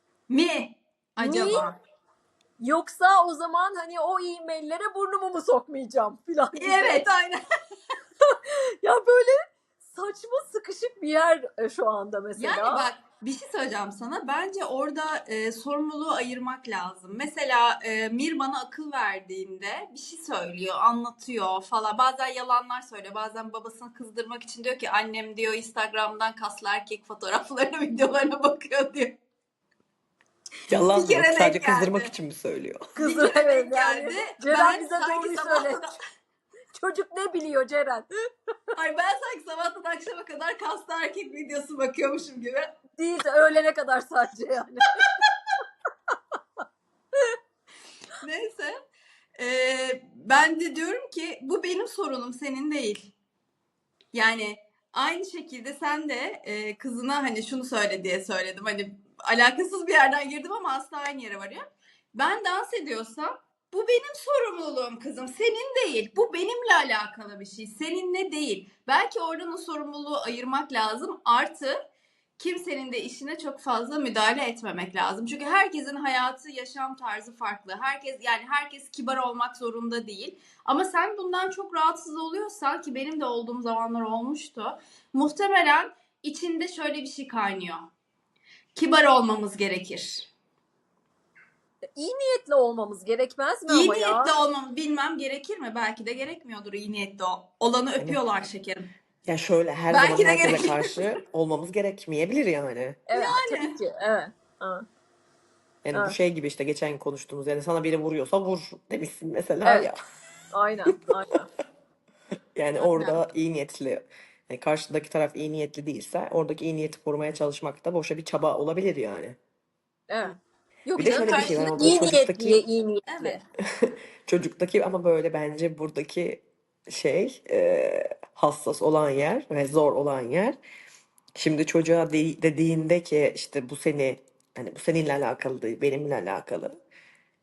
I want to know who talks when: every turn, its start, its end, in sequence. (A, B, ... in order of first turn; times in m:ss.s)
0:00.3-0:01.8 A
0:01.2-0:01.7 B
0:02.6-0:07.0 B
0:06.6-0:07.4 A
0:08.2-0:12.9 B
0:12.4-0:29.2 A
0:30.7-0:33.0 C
0:30.7-0:32.1 A
0:33.0-0:35.8 B
0:33.0-0:36.0 A
0:36.7-0:38.1 B
0:38.8-0:42.7 A
0:43.0-0:45.1 B
0:48.2-0:48.8 A
0:49.4-0:53.1 A
0:54.1-1:01.6 A
1:02.2-1:11.8 A
1:12.4-1:27.9 A
1:28.8-1:30.3 A
1:32.0-1:34.4 B
1:33.7-1:38.9 A
1:39.3-1:43.0 C
1:39.9-1:41.1 A
1:43.1-1:44.8 B
1:43.1-1:43.8 A
1:45.8-1:50.0 C
1:50.5-1:51.5 B
1:52.6-1:59.4 C
1:52.8-1:53.2 A
2:00.1-2:03.4 B
2:01.0-2:02.6 C
2:01.0-2:01.7 A
2:03.1-2:03.4 A
2:03.8-2:10.6 C
2:11.4-2:16.8 C